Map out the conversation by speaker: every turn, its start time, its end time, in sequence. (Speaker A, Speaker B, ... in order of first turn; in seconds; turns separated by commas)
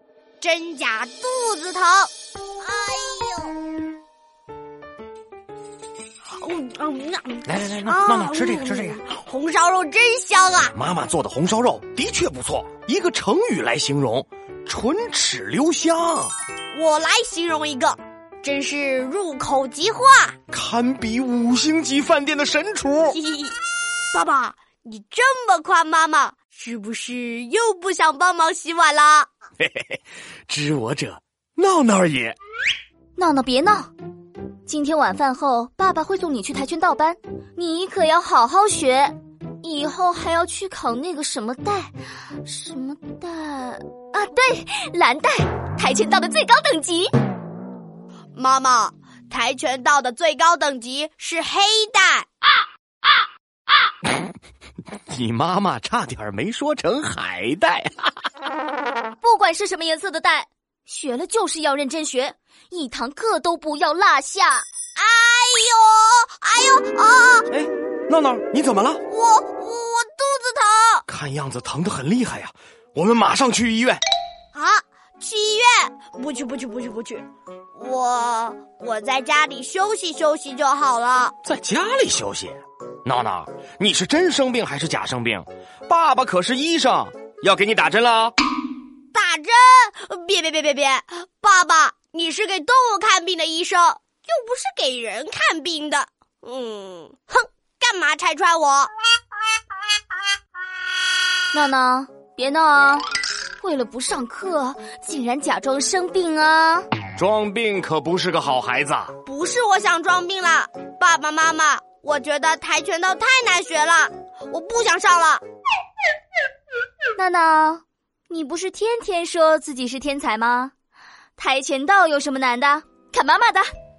Speaker A: 0.4-3.5, Speaker A: 6.4-10.7, Speaker B: 7.4-9.0, Speaker B: 10.7-16.3, Speaker A: 16.7-20.3, Speaker B: 20.5-23.2, Speaker A: 23.1-23.5, Speaker A: 24.1-29.3, Speaker B: 29.6-32.4, Speaker C: 33.1-33.9, Speaker C: 34.7-47.1, Speaker A: 48.4-52.2, Speaker B: 55.1-58.1, Speaker C: 59.2-64.6, Speaker A: 65.0-67.5, Speaker B: 67.5-69.0, Speaker A: 69.1-71.0, Speaker B: 71.1-74.0, Speaker A: 74.5-81.3, Speaker B: 81.4-88.3, Speaker A: 89.1-98.9, Speaker C: 101.5-103.0, Speaker C: 103.6-106.8, Speaker B: 107.2-109.1, Speaker A: 109.2-115.4, Speaker C: 117.2-120.7, Speaker C: 121.4-123.7